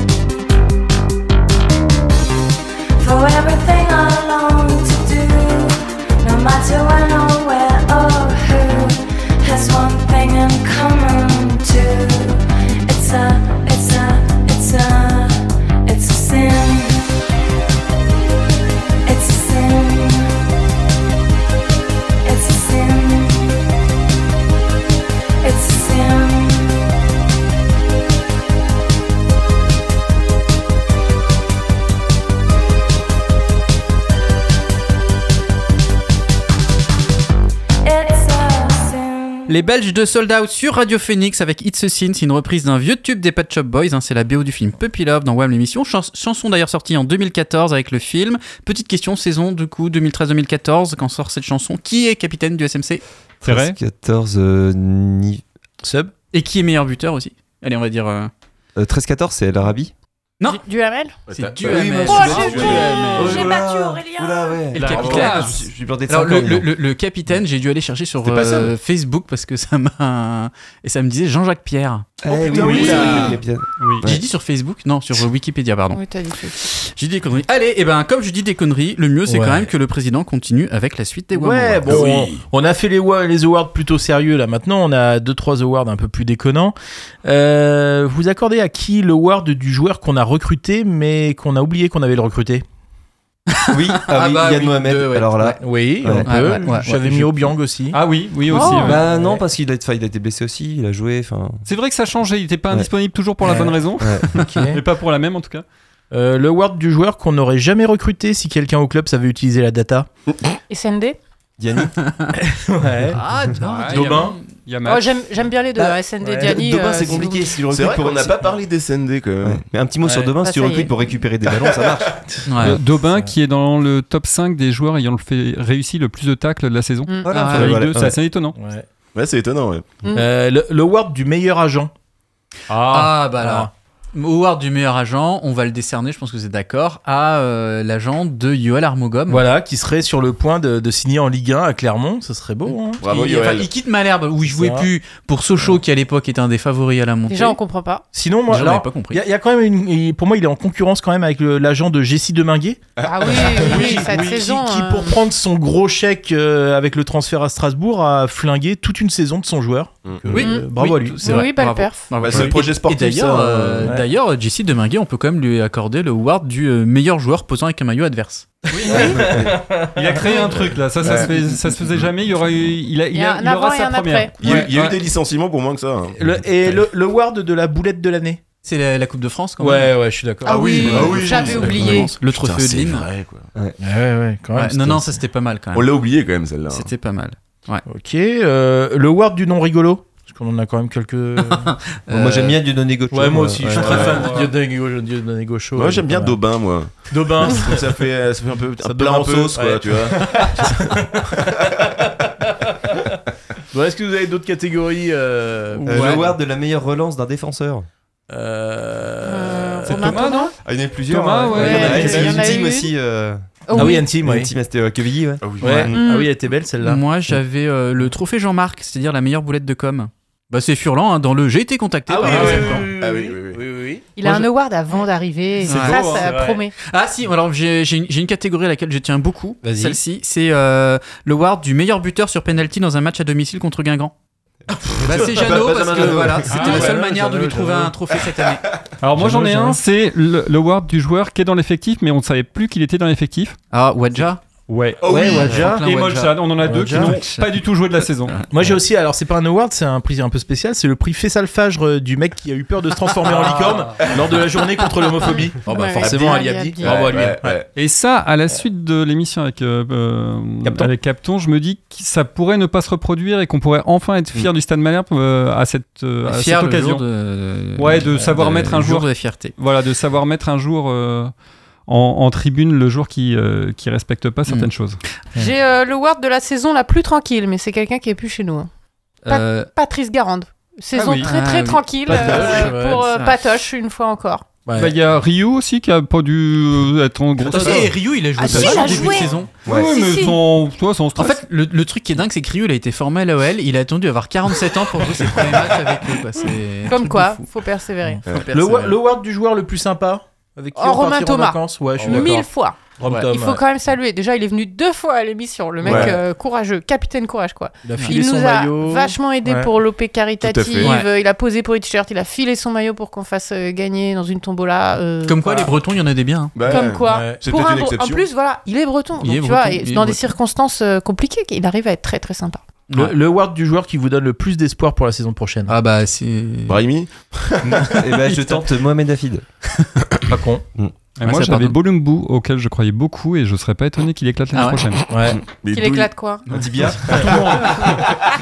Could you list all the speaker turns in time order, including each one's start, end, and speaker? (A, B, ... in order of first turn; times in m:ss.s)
0:03.0-0:17.1 A
0:19.0-0:20.4 A
0:22.2-0:23.6 A
0:25.4-0:26.8 A
0:37.8-0:39.6 A
0:39.5-0:53.0 B
0:53.4-0:55.4 C
0:53.4-0:53.8 D
0:55.8-0:56.1 E
0:56.3-0:58.3 B
0:58.8-0:59.9 C
1:00.4-1:01.2 F
1:01.3-1:02.8 G
1:01.3-1:03.5 B
1:01.6-1:06.7 C
1:02.0-1:04.6 F
1:04.7-1:13.4 B
1:04.8-1:05.6 D
1:04.9-1:05.4 G
1:08.2-1:08.7 G
1:12.2-1:14.2 C
1:12.3-1:13.3 G
1:12.4-1:13.4 E
1:13.8-1:14.0 D
1:14.0-1:16.0 B
1:15.9-1:16.6 F
1:16.6-1:22.1 B
1:19.3-1:19.7 E
1:21.3-1:32.6 E
1:21.8-1:22.4 G
1:33.6-1:35.6 B
1:33.7-1:36.6 C
1:35.6-1:38.0 E
1:36.2-1:37.0 B
1:37.9-1:39.0 D
1:38.5-1:39.0 F
1:38.5-1:41.6 C
1:38.6-1:39.4 E
1:41.6-1:45.6 D
1:43.4-1:43.7 E
1:44.0-1:44.5 C
1:44.3-1:44.8 E
1:46.1-1:50.1 E
1:50.7-1:51.2 F
1:51.6-1:52.0 C
1:52.1-1:52.3 B
1:52.4-1:53.2 E
1:53.1-1:54.4 B
1:53.6-1:55.1 D
1:53.9-1:54.4 E
1:54.8-1:57.6 F
1:56.2-1:56.6 E
1:56.4-1:58.5 C
1:57.6-1:59.7 G
1:59.4-2:02.2 C
2:00.4-2:00.9 F
2:01.5-2:01.9 G
2:02.4-2:02.8 B
2:02.6-2:08.6 D
2:07.2-2:08.2 C
2:07.3-2:07.7 B
2:08.6-2:08.8 E
2:09.1-2:09.9 G
2:10.1-2:11.9 E
2:12.7-2:13.7 E
2:12.7-2:13.1 D
2:12.9-2:19.4 B
2:19.3-2:23.0 E
2:23.0-2:27.6 B
2:23.0-2:23.7 G
2:24.4-2:24.9 E
2:27.3-2:28.0 F
2:28.1-2:41.5 E
2:28.5-2:29.2 B
2:33.0-2:33.9 G
2:33.0-2:35.2 F
2:33.7-2:34.0 B
2:40.0-2:40.4 G
2:40.3-2:49.0 B
2:40.4-2:42.1 F
2:42.2-2:44.0 G
2:48.7-2:55.0 D
2:48.8-2:49.2 F
2:48.9-2:50.2 E
2:51.0-2:51.4 G
2:53.1-2:54.4 F
2:54.4-2:56.2 G
2:56.2-2:58.4 E
2:58.6-3:00.0 B
2:59.6-3:01.4 E
3:00.4-3:02.1 F
3:00.4-3:03.5 G
3:00.7-3:03.1 B
3:03.8-3:05.1 E
3:04.5-3:05.9 B
3:05.7-3:06.9 G
3:06.7-3:07.8 B
3:07.8-3:11.7 E
3:11.4-3:12.6 B
3:12.1-3:14.2 C
3:13.1-3:16.4 E
3:13.8-3:14.3 G
3:14.2-3:14.5 D
3:15.7-3:20.5 G
3:17.1-3:17.8 E
3:18.8-3:23.0 E
3:23.7-3:26.3 E
3:25.7-3:26.3 B
3:25.8-3:27.8 C
3:28.3-3:30.2 E
3:29.2-3:30.5 F
3:29.9-3:30.5 D
3:30.6-3:35.9 C
3:31.0-3:32.5 D
3:31.5-3:32.5 E
3:31.5-3:32.9 F
3:33.6-3:34.1 F
3:33.7-3:34.5 E
3:35.4-3:35.9 G
3:35.6-3:37.0 E
3:35.9-3:36.3 F
3:36.8-3:42.9 B
3:42.1-3:44.5 E
3:43.0-3:43.6 G
3:44.2-3:46.7 F
3:45.6-3:46.2 B
3:45.7-3:46.3 D
3:45.9-3:46.6 E
3:46.8-3:54.1 B
3:49.6-3:50.0 E
3:55.0-3:58.7 B
3:55.0-3:56.6 C
3:55.1-3:55.8 E
3:55.9-3:56.3 G
3:56.5-3:57.9 E
3:56.5-3:56.8 D
3:59.0-4:03.6 D
3:59.2-3:59.8 E
4:03.7-4:04.4 B
4:04.7-4:08.5 D
4:05.0-4:05.8 E
4:05.0-4:05.5 G
4:05.1-4:07.6 B
4:06.6-4:07.2 E
4:08.5-4:17.6 E
4:13.3-4:14.0 D
4:15.6-4:17.1 F
4:16.0-4:17.7 G
4:17.7-4:27.0 D
4:20.6-4:20.9 E
4:26.2-4:29.5 B
4:27.8-4:31.3 D
4:31.8-4:35.0 D
4:35.3-4:38.7 F
4:39.2-4:39.7 B
4:39.3-4:44.4 F
4:40.9-4:41.3 D
4:41.2-4:43.4 B
4:42.1-4:43.1 E
4:44.6-4:45.0 E
4:44.7-4:51.4 D
4:47.4-4:49.5 B
4:48.4-4:50.4 F
4:49.7-4:49.9 C
4:51.2-4:57.4 B
4:56.9-4:58.2 F
4:58.1-5:03.6 E
4:58.2-4:59.0 B
5:00.7-5:15.4 F
5:05.8-5:06.2 E
5:05.8-5:06.1 G
5:07.8-5:09.7 E
5:10.4-5:11.0 G
5:10.8-5:11.1 B
5:15.2-5:16.5 B
5:16.5-5:18.3 G
5:16.6-5:22.6 F
5:17.1-5:17.4 E
5:19.2-5:20.3 B
5:22.9-5:23.1 B
5:22.9-5:25.7 E
5:25.7-5:26.8 B
5:26.7-5:27.9 G
5:27.7-5:29.4 C
5:28.2-5:28.6 B
5:30.3-5:30.6 E
5:31.2-5:35.1 D
5:31.2-5:31.8 B
5:34.5-5:34.8 B
5:35.1-5:35.4 E
5:35.6-5:36.1 G
5:35.7-5:36.5 F
5:36.4-5:36.9 B
5:36.5-5:37.4 C
5:37.0-5:38.2 D